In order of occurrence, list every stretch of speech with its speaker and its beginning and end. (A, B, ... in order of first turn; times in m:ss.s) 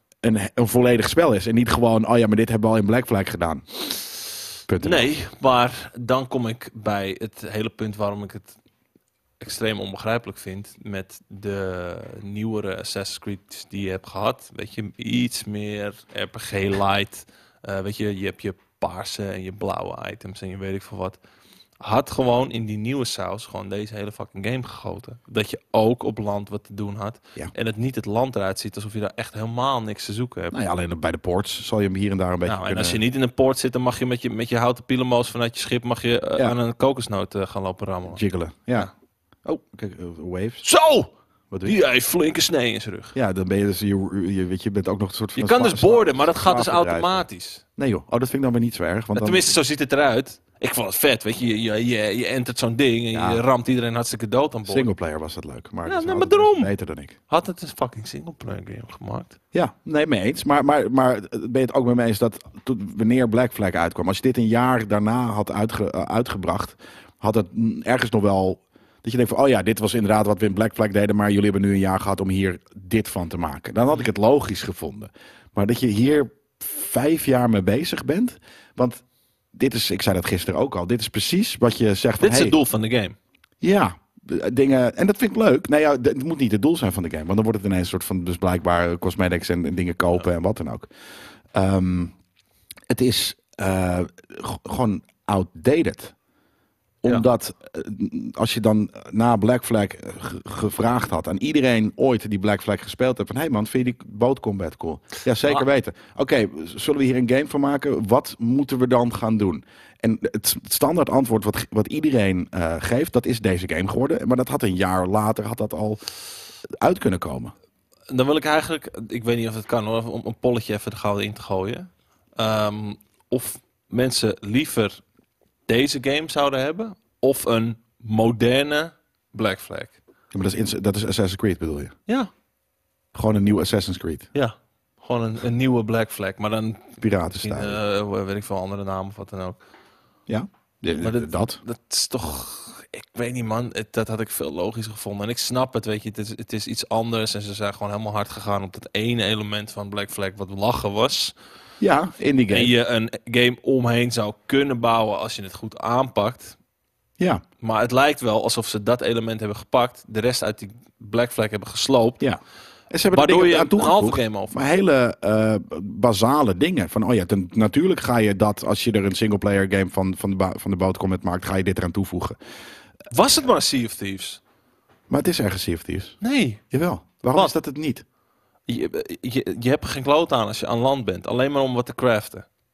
0:00.2-0:03.8 A
0:04.7-0:05.1 A
0:04.8-0:08.6 B
0:09.4-0:21.2 B
0:21.8-0:30.6 B
0:30.5-0:33.0 A
0:32.5-0:38.2 B
0:38.1-0:38.9 A
0:39.4-0:40.6 A
0:40.6-0:41.1 B
0:41.5-0:41.8 A
0:41.6-0:43.2 B
0:43.2-0:47.2 A
0:45.4-0:47.6 B
0:47.8-0:49.6 A
0:49.2-0:54.9 B
0:53.1-0:53.4 A
0:54.7-0:57.2 A
0:55.9-0:56.7 B
0:57.3-0:59.4 B
0:59.5-1:19.0 A
1:19.5-1:22.6 A
1:22.2-1:23.2 B
1:23.6-1:30.9 A
1:31.5-1:32.1 A
1:32.9-1:36.1 A
1:37.0-1:56.0 A
1:56.7-1:57.5 A
1:58.1-2:05.0 B
2:05.7-2:10.0 B
2:10.3-2:11.9 A
2:13.1-2:14.3 A
2:14.3-2:19.6 B
2:17.0-2:17.8 A
2:20.3-2:21.6 A
2:21.0-2:31.3 B
2:31.8-2:32.7 A
2:32.5-2:36.6 B
2:37.6-2:42.2 B
2:42.2-2:52.4 A
2:43.1-2:44.7 B
2:53.1-2:54.4 B
2:55.1-2:56.2 A
2:56.2-2:56.6 B
2:56.7-2:58.0 A
2:58.7-3:02.5 B